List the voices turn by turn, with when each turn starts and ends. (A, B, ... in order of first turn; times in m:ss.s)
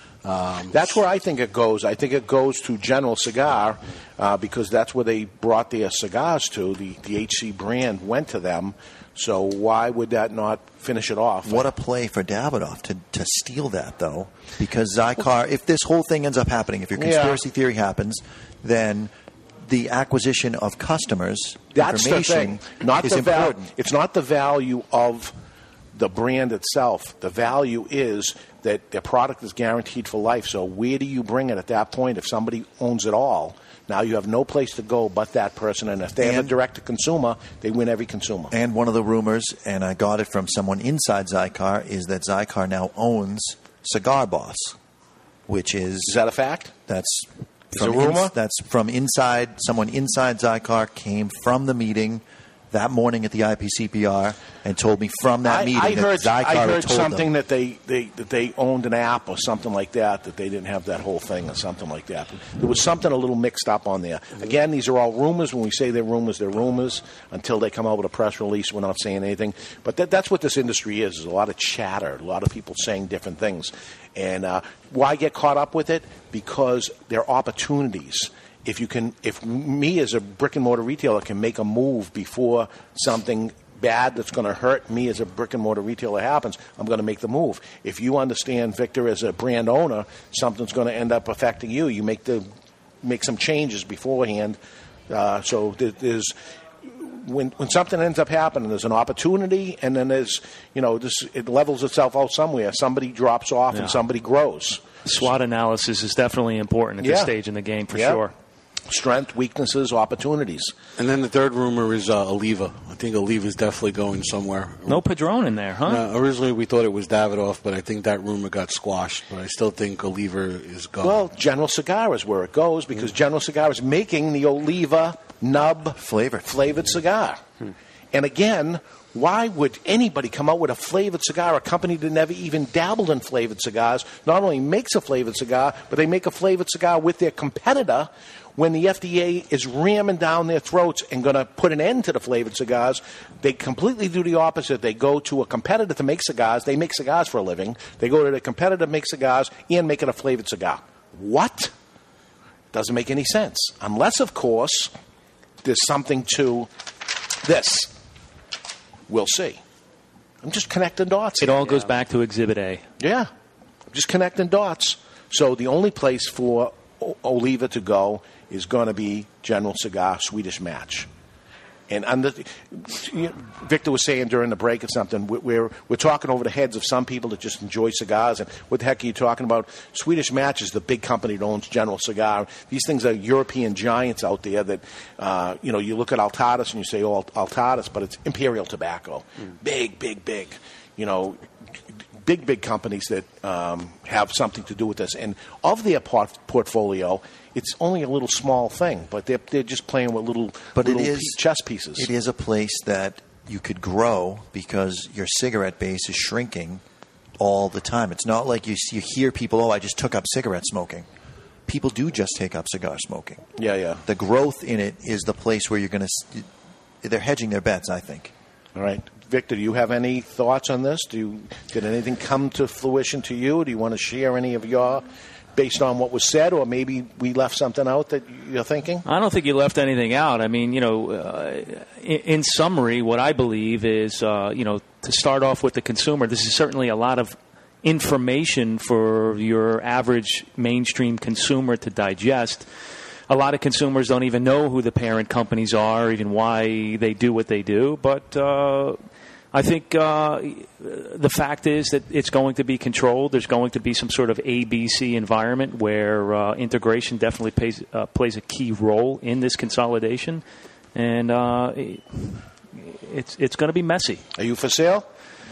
0:00.2-0:01.0 A
0:00.7-0:11.7 B
0:11.4-0:23.7 C
0:17.0-0:17.4 B
0:21.7-0:25.3 B
0:25.9-0:38.5 B
0:36.2-0:36.5 C
0:38.5-0:44.7 C
0:45.5-0:46.2 C
0:46.0-0:46.7 B
0:46.9-0:57.2 C
0:47.7-0:48.3 B
0:55.4-1:32.5 B
1:33.0-1:34.6 B
1:35.1-1:36.3 B
1:36.8-1:44.8 B
1:43.7-1:44.0 D
1:45.0-1:48.3 D
1:47.0-1:47.3 B
1:47.9-1:48.2 B
1:48.9-1:50.7 B
1:51.0-1:55.0 A
1:54.9-1:56.0 D
1:55.8-2:01.2 A
2:01.0-2:07.4 B
2:06.0-2:06.6 C
2:08.1-2:31.7 B
2:32.7-2:34.9 B
2:35.6-2:36.7 B
2:37.4-2:37.9 B
2:39.1-2:39.6 B
2:40.4-2:41.7 B
2:41.4-2:42.8 D
2:43.0-2:43.3 B
2:43.9-2:51.1 B
2:51.9-3:11.4 B
3:12.2-3:22.1 B
3:20.7-3:21.4 C
3:22.0-3:26.8 C
3:27.4-3:31.1 C
3:31.7-3:33.4 C
3:33.6-3:34.0 B
3:34.0-3:36.5 C
3:37.0-3:38.3 C
3:38.7-3:45.0 B
3:45.6-3:49.0 B
3:49.0-4:02.7 D
4:03.3-4:09.0 D
4:09.5-4:20.4 D
4:20.9-4:24.2 D
4:24.4-4:25.1 B